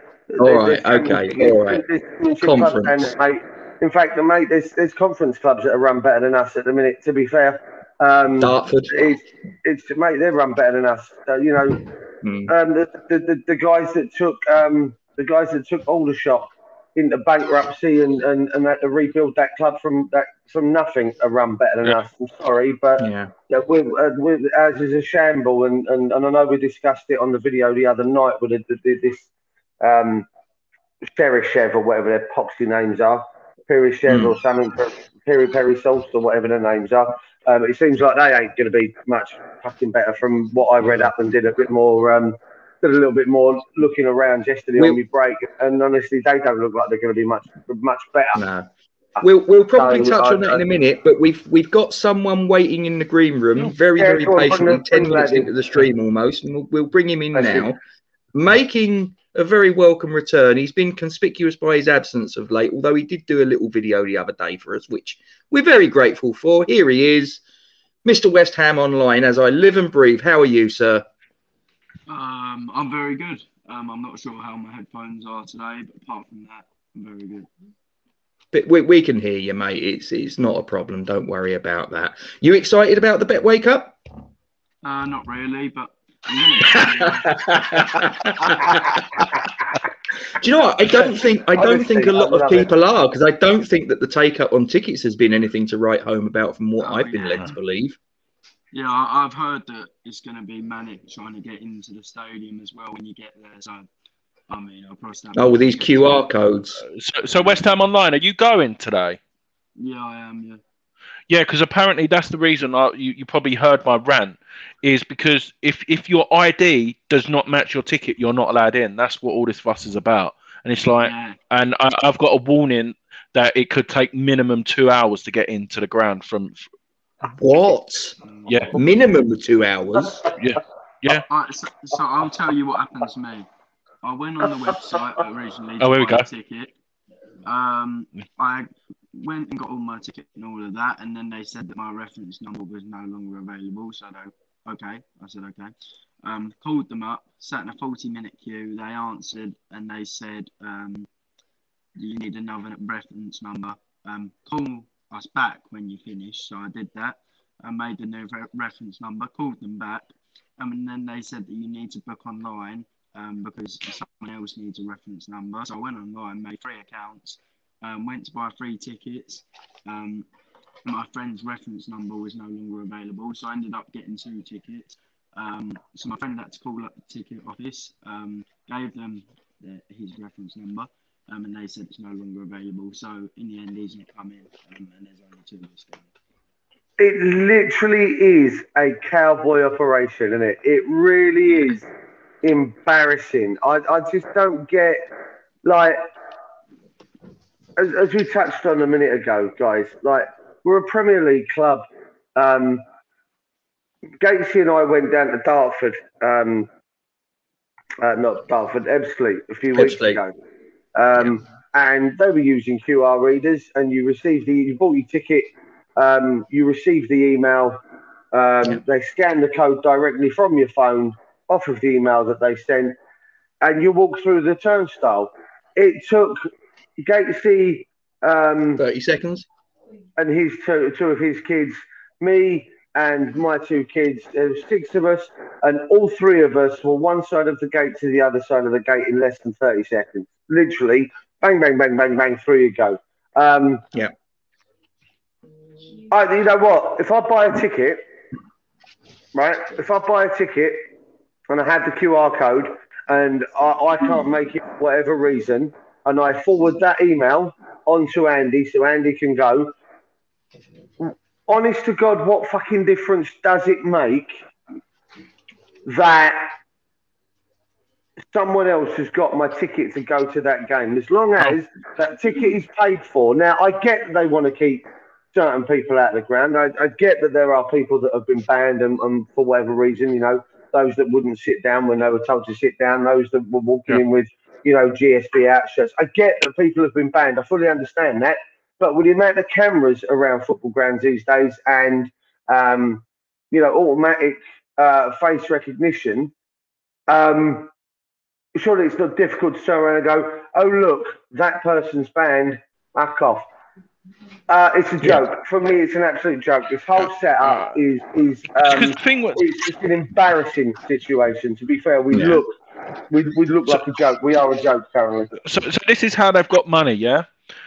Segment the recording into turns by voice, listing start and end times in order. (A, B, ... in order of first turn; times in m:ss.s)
0:00.3-0:11.8 A
0:00.4-0:01.8 B
0:02.4-0:03.0 B
0:08.4-0:09.1 B
0:12.2-0:12.5 B
0:12.5-0:29.3 A
0:23.0-0:23.3 B
0:29.8-0:30.3 A
0:31.1-0:48.4 A
0:34.1-0:34.4 B
0:48.4-0:48.7 B
0:49.2-0:57.8 B
0:49.8-0:50.6 A
0:54.0-0:55.5 A
0:57.4-0:57.7 A
0:58.3-1:07.4 B
1:08.0-1:11.0 B
1:12.1-1:17.5 C
1:18.5-1:24.0 B
1:24.8-1:28.5 C
1:26.7-1:29.3 B
1:30.3-1:38.0 B
1:31.6-1:32.7 A
1:36.8-1:37.5 C
1:38.7-1:43.9 C
1:44.5-1:46.2 C
1:45.4-1:46.8 B
1:46.8-1:49.2 D
1:47.3-1:47.6 C
1:49.8-1:50.6 C
1:51.3-2:06.7 D
2:01.0-2:01.4 C
2:07.4-2:08.2 B
2:08.2-2:08.8 C
2:08.5-2:08.8 D
2:08.7-2:10.2 B
2:10.4-2:11.2 D
2:11.1-2:13.5 C
2:14.0-2:16.7 C
2:15.8-2:16.2 D
2:17.4-2:25.7 C
2:26.2-2:31.1 C
2:32.0-2:50.3 C
2:50.8-3:06.1 C
3:07.0-3:11.9 A
3:12.4-3:15.0 A
3:15.6-3:16.0 A
3:17.8-3:22.8 A
3:24.2-3:26.7 A
3:28.0-3:30.3 A
3:29.8-3:30.2 B
3:31.0-3:37.8 A
3:38.3-3:43.0 A
3:43.6-3:48.8 A
3:48.8-3:49.5 B
3:50.2-4:03.8 A
4:06.1-4:08.0 A
4:09.3-4:10.9 A
4:11.5-4:19.7 A
4:21.0-4:24.4 A
4:25.9-4:26.5 A
4:28.3-4:56.3 A
4:57.1-4:57.7 A
4:58.6-5:03.5 A
5:04.5-5:12.5 A
5:07.4-5:07.7 D
5:08.6-5:09.4 D
5:12.1-5:12.4 B
5:13.1-5:15.4 A
5:15.4-5:17.3 D